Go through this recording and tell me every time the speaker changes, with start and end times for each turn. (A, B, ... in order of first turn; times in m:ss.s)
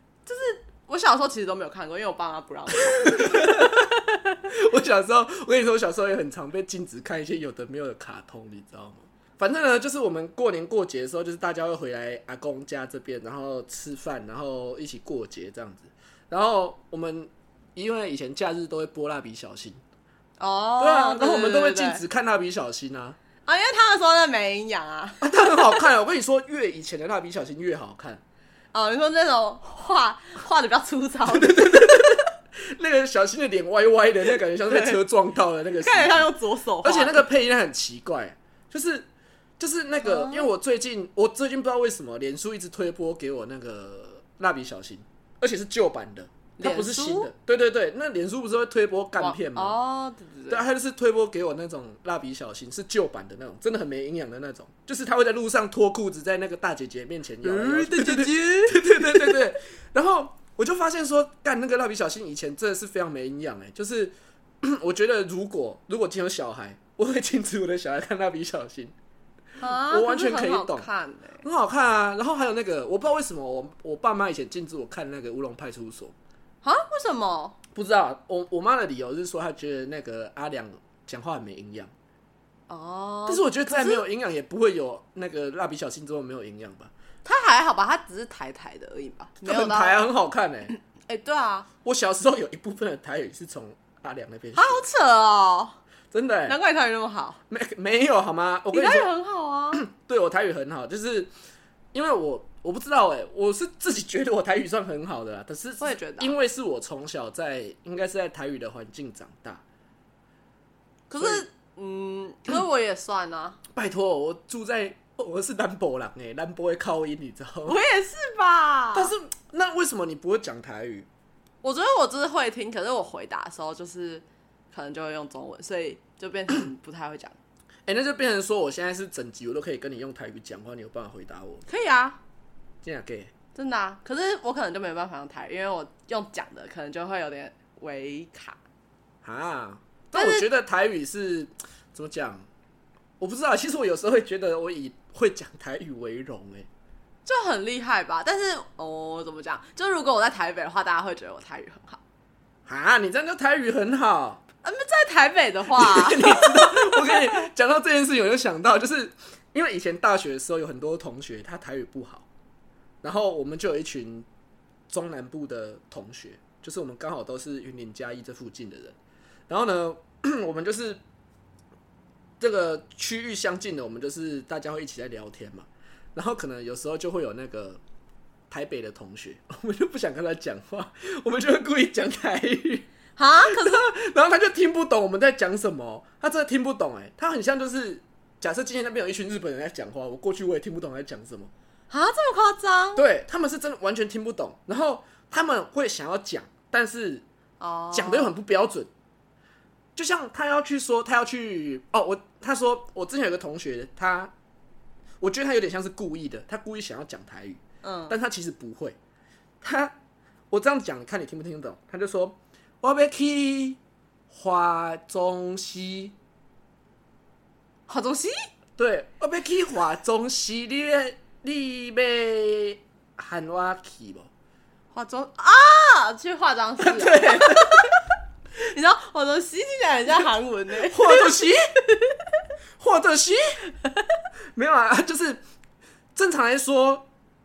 0:00.2-0:04.4 A
0:02.9-0:03.9 B
0:04.5-0:19.8 B
0:20.4-0:22.0 A
0:20.8-0:23.2 B
0:23.4-0:25.8 A
0:25.2-0:28.2 B
0:28.7-0:32.2 A
0:31.3-0:36.3 B
0:34.6-0:35.0 A
0:35.8-0:37.2 A
0:36.8-0:39.1 B
0:39.6-0:49.8 B
0:40.0-0:40.5 A
0:46.6-0:47.3 A
0:49.2-0:50.6 A
0:50.5-1:08.9 B
0:57.4-0:59.4 A
1:09.6-1:11.4 A
1:09.6-1:10.8 B
1:11.4-1:16.1 B
1:16.6-1:17.6 A
1:17.7-1:21.9 B
1:22.7-1:24.0 A
1:23.3-1:26.9 B
1:27.2-1:30.0 A
1:29.4-1:30.7 B
1:30.7-1:31.7 A
1:31.8-1:34.8 B
1:34.5-1:35.8 A
1:36.1-1:36.6 B
1:36.5-1:37.4 A
1:37.5-1:39.1 B
1:38.7-1:39.8 A
1:39.7-1:41.3 B
1:41.9-1:49.6 B
1:45.8-1:46.3 A
1:51.1-1:53.6 A
1:51.2-1:51.4 B
1:53.7-1:57.8 B
1:57.6-1:59.1 A
1:58.9-2:01.1 B
2:01.6-2:07.4 A
2:07.8-2:11.6 B
2:11.6-2:12.2 A
2:12.8-2:13.3 B
2:13.5-2:18.6 A
2:19.2-2:22.4 B
2:20.1-2:20.4 A
2:23.2-2:26.7 B
2:27.2-2:32.0 A
2:32.6-2:34.4 B
2:34.6-2:37.4 A
2:35.7-2:42.2 B
2:43.0-2:44.3 B
2:44.9-2:49.0 B
2:49.5-2:51.0 B
2:52.4-2:57.8 B
2:58.5-3:02.9 B
3:03.2-3:03.9 A
3:03.4-3:11.5 B
3:11.9-3:13.0 A
3:12.9-3:17.2 B
3:17.6-3:18.3 A
3:17.9-3:18.9 B
3:20.0-3:24.3 B
3:25.2-3:29.0 B
3:27.8-3:28.2 A
3:29.6-3:29.9 B
3:30.5-3:33.8 B
3:34.3-3:36.1 B
3:37.9-3:38.5 A
3:38.8-3:44.3 B
3:44.9-3:47.9 A
3:46.8-3:47.9 B
3:48.6-3:52.2 A
3:50.9-3:51.7 B
3:52.8-3:53.6 B
3:54.5-3:55.4 B
3:56.1-3:57.1 B